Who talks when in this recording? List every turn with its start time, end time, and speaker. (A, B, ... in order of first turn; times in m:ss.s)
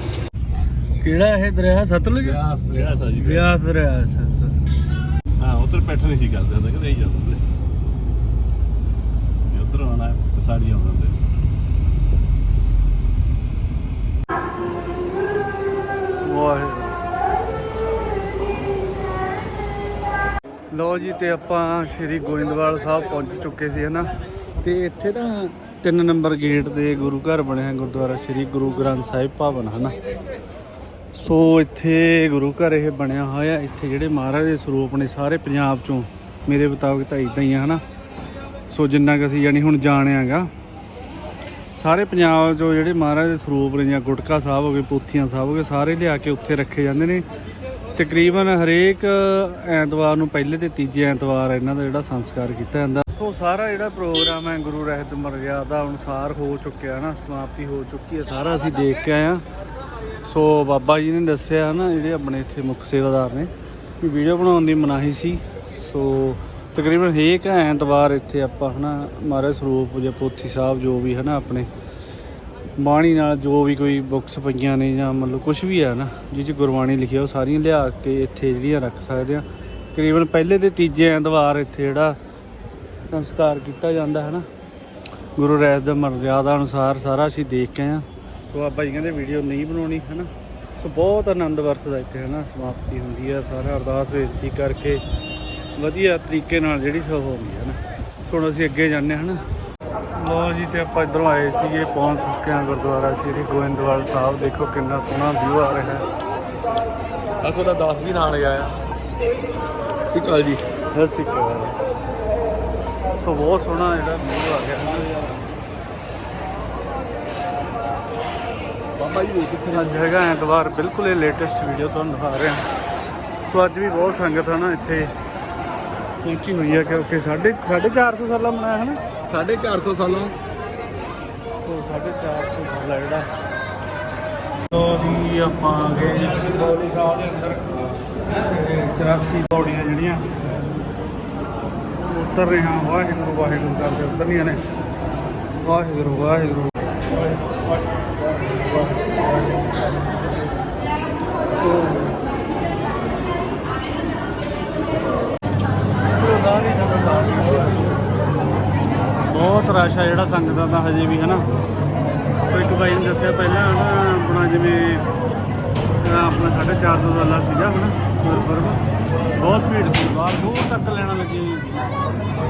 0:01.0-0:04.6 A
0:02.3-0:02.9 B
0:02.5-0:03.5 C
0:05.4-0:07.4 C
0:09.5-0:11.2 C
0:16.2-0:17.0 A
0:20.7-0:30.0 A
0:31.1-0:37.8 A
0:38.7-0:40.5 A
0:41.8-0:47.2 A
0:47.9-0:59.4 A
1:00.2-1:11.7 A
1:12.8-1:22.2 A
1:23.1-1:24.4 A
1:25.4-1:35.0 A
1:35.8-1:39.4 A
1:40.1-1:46.0 A
1:47.4-1:48.8 B
1:50.0-1:50.6 B
1:50.9-1:51.8 A
1:53.2-1:55.3 A
1:59.0-1:59.9 B
1:59.6-2:02.6 A
2:03.4-2:05.1 A
2:06.2-2:09.0 A
2:09.3-2:10.3 B
2:11.6-2:13.3 A
2:14.7-2:20.4 A
2:22.0-2:24.6 A
2:25.6-2:26.9 A
2:31.6-2:32.1 A
2:36.0-2:38.0 A
2:39.2-2:41.4 A
2:42.4-2:45.0 A
2:46.0-2:48.8 A
2:49.4-2:52.0 A